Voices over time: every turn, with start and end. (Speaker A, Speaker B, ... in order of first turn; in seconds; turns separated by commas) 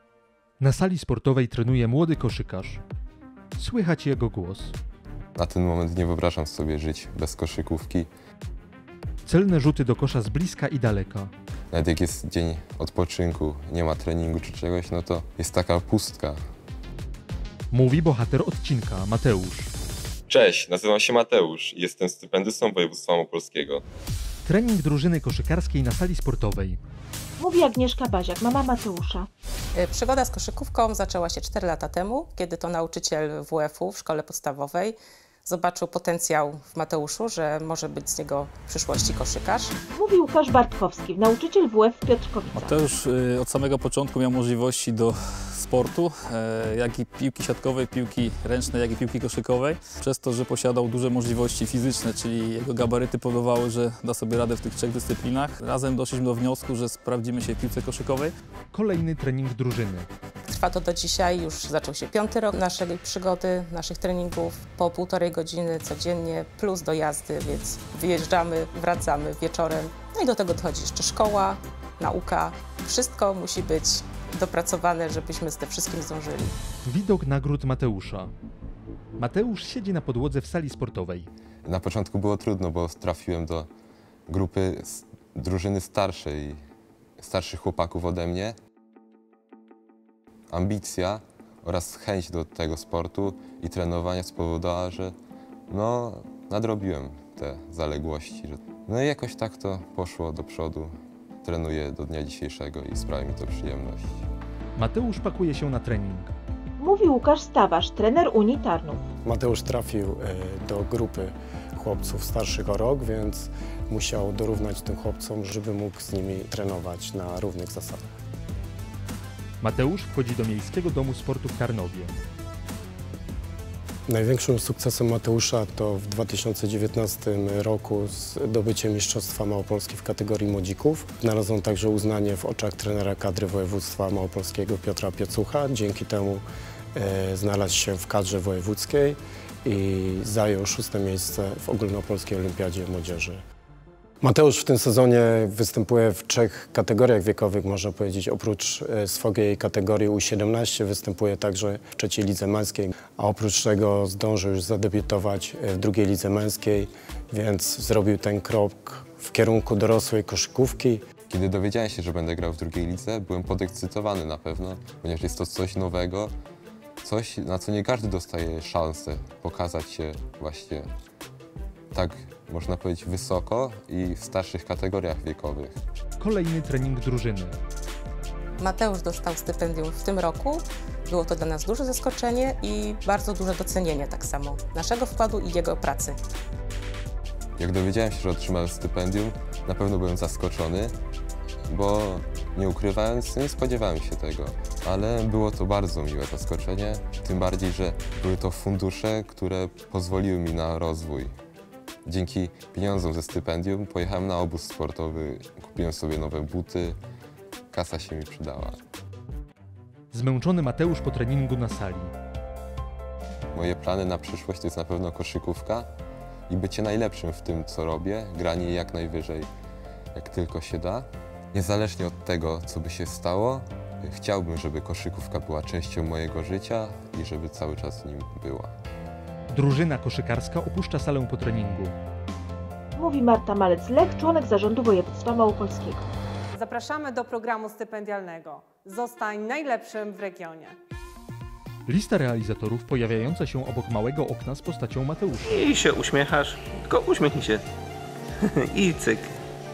Speaker A: 0.6-2.8, Speaker A: 3.5-4.8, Speaker B: 5.3-8.1, Speaker A: 9.2-11.3, Speaker B: 11.7-16.4, Speaker A: 17.7-19.7, Speaker B: 20.3-23.8, Speaker A: 24.4-26.8, Speaker C: 27.4-29.3, Speaker D: 29.8-39.7, Speaker C: 39.9-42.8, Speaker E: 42.5-58.3, Speaker A: 58.7-60.1, Speaker D: 60.5-76.5, Speaker A: 76.8-78.3, Speaker A: 79.2-81.3, Speaker B: 81.6-83.7, Speaker B: 84.3-86.6, Speaker B: 87.2-88.5, Speaker B: 90.5-95.1, Speaker B: 95.7-100.9, Speaker B: 101.4-104.2, Speaker A: 104.8-106.3, Speaker C: 106.8-109.1, Speaker F: 109.2-118.1, Speaker A: 119.6-122.2, Speaker F: 124.1-143.4, Speaker F: 144.2-161.0, Speaker B: 161.3-166.3, Speaker B: 167.0-170.9, Speaker B: 171.9-175.8, Speaker A: 176.2-177.6, Speaker D: 178.6-186.2, Speaker B: 187.6-190.9, Speaker B: 191.7-201.3, Speaker B: 202.1-207.0, Speaker B: 207.7-208.8, Speaker A: 210.1-212.1, Speaker B: 213.5-215.9, Speaker B: 216.5-219.5, Speaker B: 220.1-228.7, Speaker A: 229.5-231.9, Speaker C: 232.9-236.1, Speaker G: 236.5-240.8, Speaker A: 241.9-245.7, Speaker H: 245.5-247.6, Speaker H: 248.7-249.3